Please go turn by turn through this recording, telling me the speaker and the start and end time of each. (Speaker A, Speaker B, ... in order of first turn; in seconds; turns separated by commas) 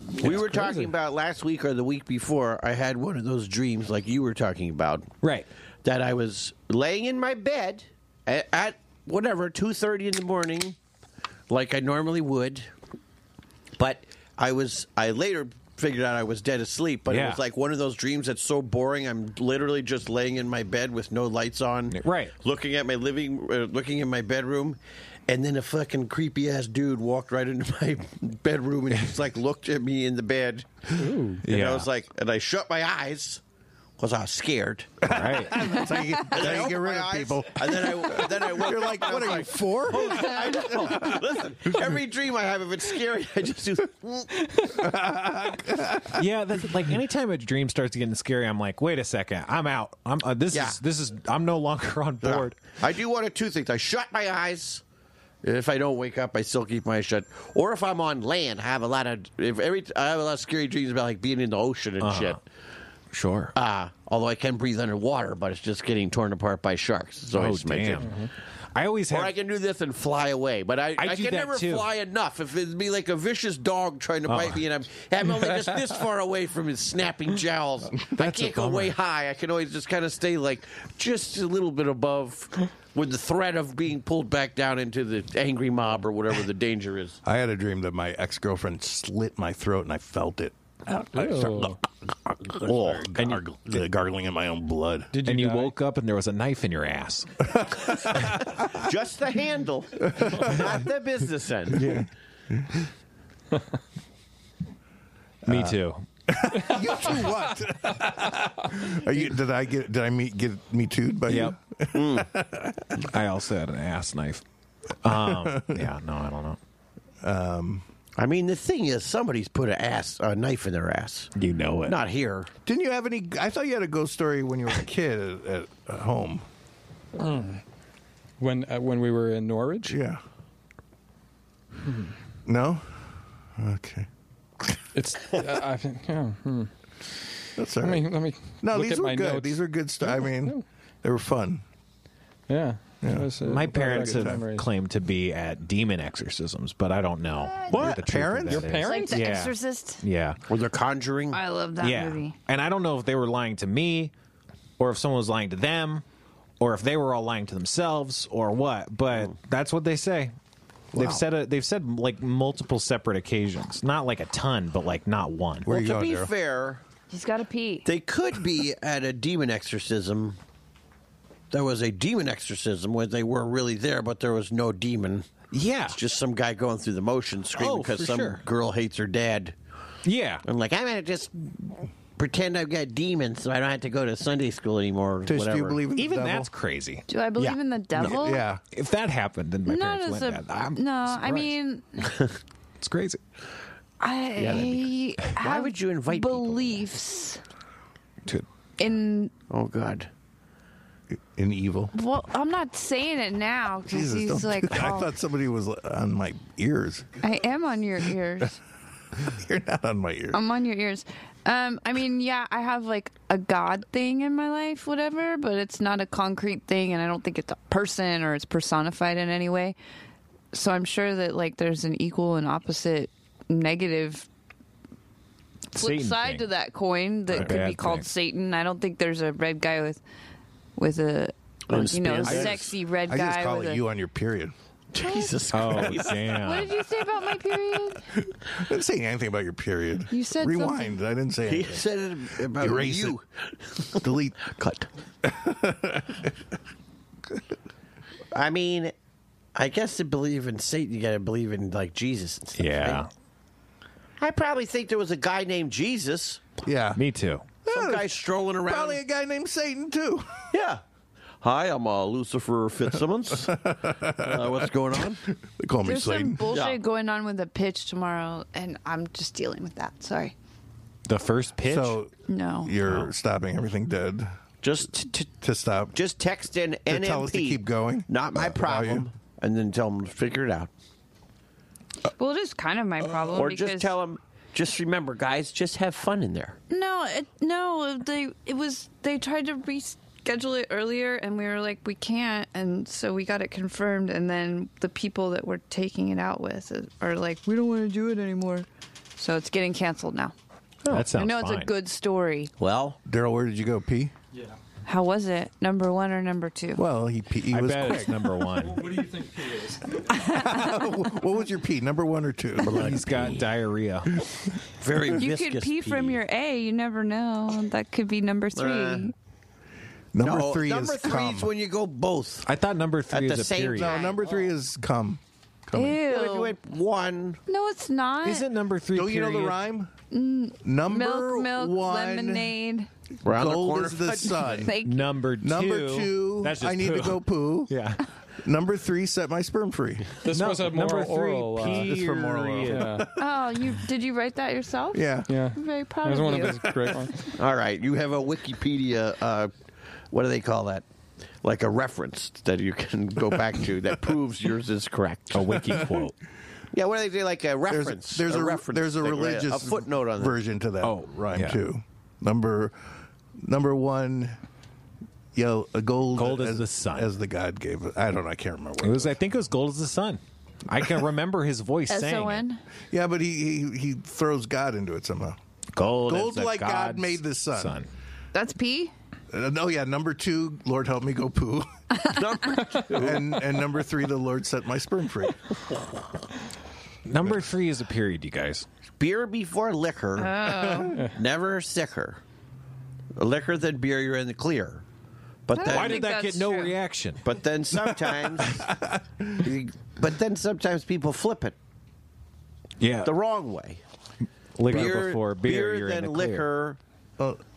Speaker A: 0.2-5.1, Speaker B: 0.2-0.8, Speaker B: 5.2-5.5, Speaker A: 5.8-10.8, Speaker A: 11.5-12.7, Speaker A: 13.8-33.4, Speaker B: 17.1-17.4, Speaker B: 21.9-22.3, Speaker C: 30.9-31.4, Speaker B: 31.4-31.9, Speaker A: 34.0-35.1, Speaker D: 35.0-41.4, Speaker B: 35.1-35.6, Speaker A: 36.2-44.5, Speaker D: 44.6-46.3, Speaker B: 46.1-52.6, Speaker A: 50.5-50.8, Speaker A: 52.2-54.8, Speaker A: 55.4-62.4, Speaker B: 62.0-62.4, Speaker B: 63.1-63.5, Speaker A: 63.5-68.2, Speaker B: 67.3-69.3, Speaker A: 69.1-87.2, Speaker B: 71.0-71.9, Speaker B: 74.2-74.6, Speaker B: 78.1-78.9, Speaker D: 87.2-91.8, Speaker C: 91.1-91.8, Speaker A: 92.5-93.1, Speaker D: 92.6-95.1, Speaker B: 93.1-93.4, Speaker C: 95.1-95.7, Speaker B: 95.2-97.5, Speaker D: 97.5-98.7, Speaker A: 98.6-102.1, Speaker D: 100.0-100.8, Speaker D: 101.7-102.8, Speaker D: 105.4-105.7, Speaker B: 105.5-106.0, Speaker D: 106.3-113.0, Speaker B: 111.3-111.5, Speaker A: 111.9-112.3, Speaker B: 113.0-114.4, Speaker B: 115.0-116.6, Speaker D: 115.0-115.9, Speaker D: 117.2-117.8, Speaker A: 118.2-121.3, Speaker B: 121.3-122.0, Speaker A: 121.8-122.5, Speaker D: 122.7-126.4, Speaker C: 127.2-127.6, Speaker C: 128.4-130.0, Speaker D: 129.9-130.2, Speaker D: 132.4-134.1, Speaker C: 134.9-136.7, Speaker D: 137.6-141.6, Speaker C: 137.8-140.6, Speaker C: 142.5-144.7, Speaker D: 143.0-144.5, Speaker B: 143.4-150.4, Speaker D: 147.7-148.8, Speaker A: 147.7-148.1, Speaker C: 148.5-149.3, Speaker E: 148.8-150.0, Speaker A: 150.5-151.4, Speaker E: 151.3-152.3, Speaker B: 151.8-154.1, Speaker B: 154.8-156.0, Speaker B: 156.6-160.3, Speaker B: 160.9-165.7, Speaker A: 160.9-161.2, Speaker D: 165.6-166.3, Speaker A: 165.7-166.8, Speaker E: 167.1-167.9, Speaker A: 167.8-170.4, Speaker A: 171.5-175.3, Speaker B: 175.5-176.0, Speaker A: 175.9-179.5, Speaker B: 177.5-178.4, Speaker B: 180.0-180.4, Speaker A: 180.4-185.8, Speaker D: 185.2-186.5, Speaker B: 185.9-187.6, Speaker E: 187.1-188.4, Speaker D: 188.0-188.6, Speaker B: 188.6-191.5, Speaker E: 189.7-192.0, Speaker B: 192.8-193.2, Speaker E: 194.0-197.4, Speaker A: 194.4-196.8, Speaker E: 198.8-199.3, Speaker A: 199.5-200.1, Speaker D: 201.1-201.9, Speaker E: 201.9-205.1, Speaker D: 203.9-207.1, Speaker E: 207.2-208.6, Speaker D: 209.2-210.4, Speaker E: 210.3-219.8, Speaker E: 220.5-224.3, Speaker B: 225.7-226.4, Speaker E: 225.7-230.0, Speaker B: 227.3-228.1, Speaker E: 230.8-233.8, Speaker A: 231.7-232.7, Speaker D: 232.2-234.5, Speaker A: 234.9-236.3, Speaker E: 235.0-235.5, Speaker B: 235.5-236.8, Speaker E: 236.2-238.1, Speaker D: 238.3-241.9, Speaker E: 240.1-241.0, Speaker A: 241.4-244.9, Speaker D: 242.4-243.2, Speaker D: 244.0-244.4, Speaker D: 245.2-246.3, Speaker A: 248.3-248.9, Speaker A: 249.5-253.1, Speaker B: 252.6-253.1, Speaker A: 254.2-256.4, Speaker D: 256.6-257.0, Speaker B: 256.9-257.4, Speaker D: 257.6-260.4, Speaker A: 257.7-259.0, Speaker A: 260.5-260.8, Speaker A: 261.4-265.2, Speaker D: 263.3-266.5, Speaker E: 265.8-270.3, Speaker A: 266.5-266.8, Speaker B: 271.1-272.0, Speaker D: 271.6-272.1, Speaker E: 272.3-272.7, Speaker D: 272.6-274.3, Speaker A: 274.6-275.3, Speaker D: 275.4-275.9, Speaker A: 275.9-280.7, Speaker D: 276.9-279.1, Speaker E: 282.2-284.0, Speaker A: 283.3-286.6, Speaker E: 286.7-298.6, Speaker E: 299.2-300.3, Speaker B: 300.9-301.7, Speaker E: 301.1-302.5, Speaker A: 302.6-303.0, Speaker D: 303.0-304.1, Speaker E: 304.9-306.8, Speaker D: 306.8-308.3, Speaker B: 307.5-308.9, Speaker C: 308.6-310.1, Speaker E: 310.1-310.7, Speaker D: 310.3-312.9, Speaker A: 312.6-313.4, Speaker B: 312.7-314.1, Speaker A: 314.8-316.2, Speaker E: 315.1-319.1, Speaker A: 318.5-319.1, Speaker D: 320.1-321.5, Speaker A: 320.2-322.5, Speaker B: 322.4-324.0, Speaker A: 323.1-324.2, Speaker D: 323.8-326.0, Speaker E: 325.7-326.5, Speaker A: 326.0-327.4, Speaker E: 327.5-328.4, Speaker B: 328.2-329.6, Speaker D: 328.9-329.9, Speaker E: 330.1-332.9, Speaker D: 330.6-332.5, Speaker A: 333.2-334.6, Speaker D: 333.2-334.7, Speaker E: 334.6-335.1, Speaker B: 334.8-338.0, Speaker D: 335.4-337.7, Speaker D: 338.4-340.2, Speaker C: 340.2-341.9, Speaker B: 340.3-343.1, Speaker D: 341.6-343.1, Speaker C: 342.6-343.1, Speaker E: 343.2-346.6, Speaker D: 344.9-345.3, Speaker C: 345.3-347.3, Speaker D: 346.6-347.1, Speaker A: 347.3-349.5, Speaker A: 350.1-350.8, Speaker A: 351.4-355.6, Speaker B: 355.3-356.1, Speaker D: 355.6-356.0, Speaker A: 356.7-360.4, Speaker D: 357.7-362.8, Speaker B: 360.8-361.6, Speaker D: 363.4-364.4, Speaker D: 365.3-369.2, Speaker B: 366.1-367.1, Speaker B: 368.8-372.4, Speaker E: 371.9-372.6, Speaker D: 372.9-375.4, Speaker B: 375.7-377.9, Speaker D: 376.1-377.8, Speaker E: 378.3-378.9, Speaker D: 379.3-381.7, Speaker A: 382.0-383.4, Speaker D: 382.9-385.4, Speaker B: 387.1-388.6, Speaker A: 389.0-392.2, Speaker E: 390.2-391.0, Speaker A: 393.1-394.8, Speaker A: 395.4-396.0, Speaker E: 395.5-396.8, Speaker B: 395.6-398.6, Speaker A: 397.2-398.6, Speaker D: 398.4-399.5, Speaker A: 399.4-401.6, Speaker B: 402.8-403.1, Speaker A: 403.0-403.8, Speaker B: 404.6-406.5, Speaker A: 404.7-406.8